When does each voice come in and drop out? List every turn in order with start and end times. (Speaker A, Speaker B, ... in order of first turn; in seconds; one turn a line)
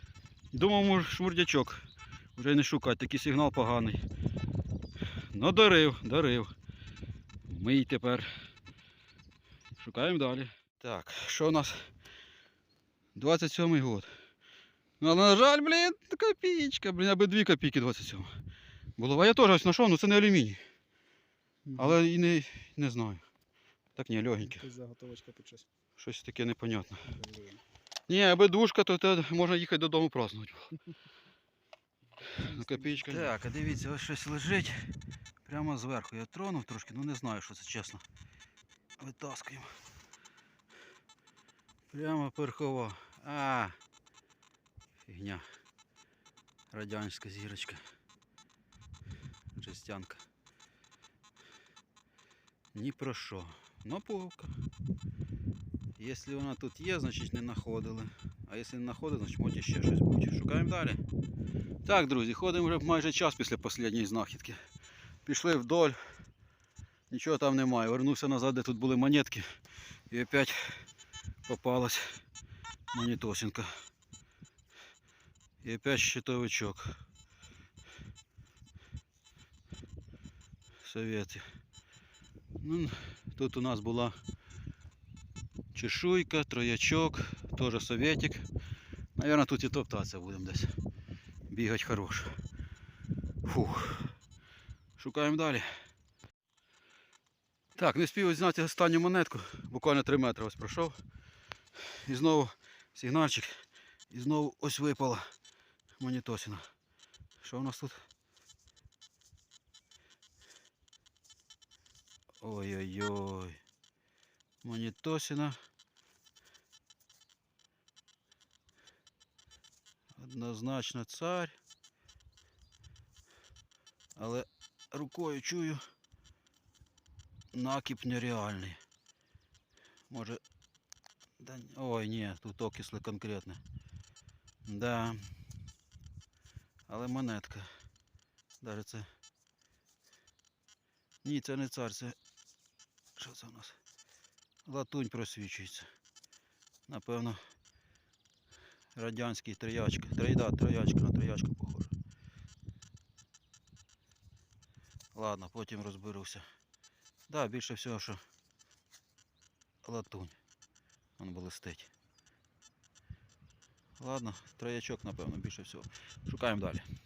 Speaker A: 0.5-1.9
Speaker A: 2.4-4.0
Speaker A: 5.3-6.5
Speaker A: 7.5-8.3
Speaker A: 9.8-11.8
Speaker A: 13.2-14.1
Speaker A: 15.0-18.3
Speaker A: 19.0-20.6
Speaker B: 21.7-22.0
Speaker A: 21.8-23.2
Speaker A: 24.0-24.6
Speaker B: 24.4-25.7
Speaker A: 26.0-27.0
Speaker B: 27.1-27.6
Speaker A: 28.1-30.7
Speaker B: 32.2-33.4
Speaker A: 32.5-34.9
Speaker A: 35.5-38.0
Speaker A: 39.0-39.7
Speaker A: 41.9-43.8
Speaker A: 45.1-45.4
Speaker A: 46.7-47.8
Speaker A: 49.5-50.2
Speaker A: 52.7-54.5
Speaker A: 56.0-61.0
Speaker A: 61.9-64.6
Speaker A: 65.2-66.0
Speaker A: 67.1-69.5
Speaker A: 70.1-70.8
Speaker A: 71.5-72.2
Speaker A: 72.9-73.7
Speaker A: 75.6-77.0
Speaker A: 80.8-81.5
Speaker A: 82.6-84.2
Speaker A: 85.7-88.5
Speaker A: 89.2-90.7
Speaker A: 91.5-92.3
Speaker A: 93.5-94.1
Speaker A: 95.0-95.7
Speaker A: 97.8-101.0
Speaker A: 102.0-105.2
Speaker A: 106.0-106.7
Speaker A: 107.4-108.0
Speaker A: 112.4-113.6
Speaker A: 114.6-115.6
Speaker A: 120.2-121.6
Speaker A: 124.2-125.8
Speaker A: 127.5-128.8
Speaker A: 130.1-130.4
Speaker A: 131.4-133.6
Speaker A: 134.7-135.2
Speaker A: 136.9-137.7
Speaker A: 138.6-139.1
Speaker A: 141.2-142.2
Speaker A: 143.2-143.8
Speaker A: 144.7-145.9
Speaker A: 146.9-147.4
Speaker A: 148.9-151.9
Speaker A: 155.1-156.4
Speaker A: 157.3-158.2
Speaker A: 159.8-160.4
Speaker A: 161.2-161.9
Speaker A: 164.0-166.9